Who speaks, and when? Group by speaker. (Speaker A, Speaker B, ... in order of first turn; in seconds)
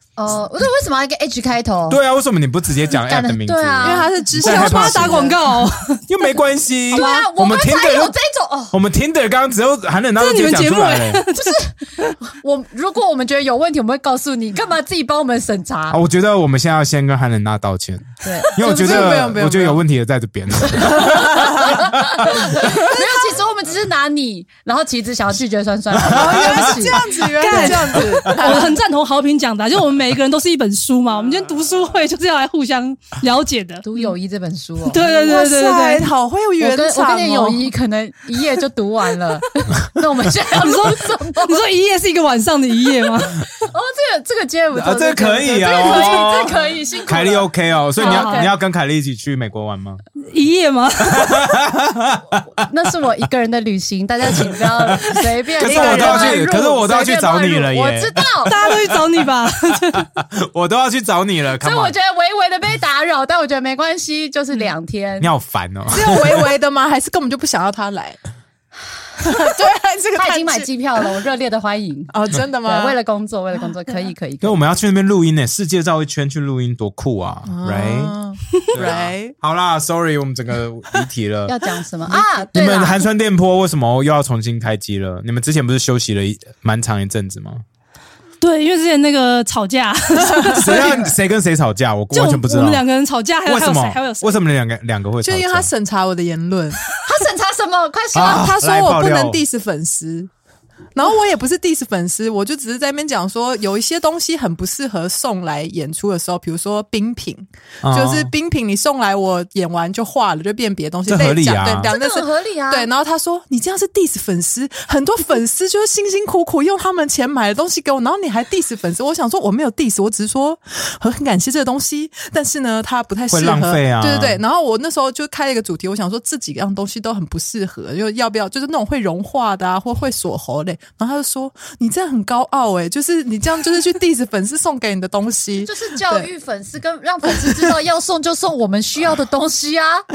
Speaker A: 0.2-2.0, 2.9-4.2, 4.9-5.4, 6.9-8.7, 11.3-16.0, 18.2-19.2, 20.9-28.5, 33.8-35.4, 36.6-41.6, 43.6-48.5, 52.6-58.5, 61.6-65.3, 69.0-69.5, 70.2-74.6, 81.5-83.0, 90.8-91.1, 97.0-98.5, 111.9-112.9, 135.6-140.1
Speaker B: 1.9-5.2, 6.1-8.1, 8.7-11.2, 15.9-22.7, 25.9-26.8, 44.7-50.0, 51.0-52.4, 55.0-59.0, 59.9-61.9, 65.2-66.4, 74.4-78.2, 78.7-81.5, 82.5-87.6, 90.5-92.8, 93.5-95.7, 98.1-99.4, 107.8-108.3, 111.1-111.9, 123.3-124.4
Speaker C: 3.8-5.3, 18.6-19.8, 21.1-21.7, 22.6-23.3, 26.0-28.8, 35.0-37.7, 55.6-57.3, 65.9-68.2, 69.2-71.0, 72.1-73.0, 77.5-79.3, 95.2-96.8, 98.2-100.3, 100.9-136.3, 137.3-137.8
Speaker D: 4.4-6.0, 6.9-7.3, 10.2-11.6, 27.4-33.9, 34.8-36.1, 40.5-43.5, 45.8-46.3, 48.0-48.5, 50.3-51.4, 58.5-60.0, 88.4-91.0, 92.1-94.4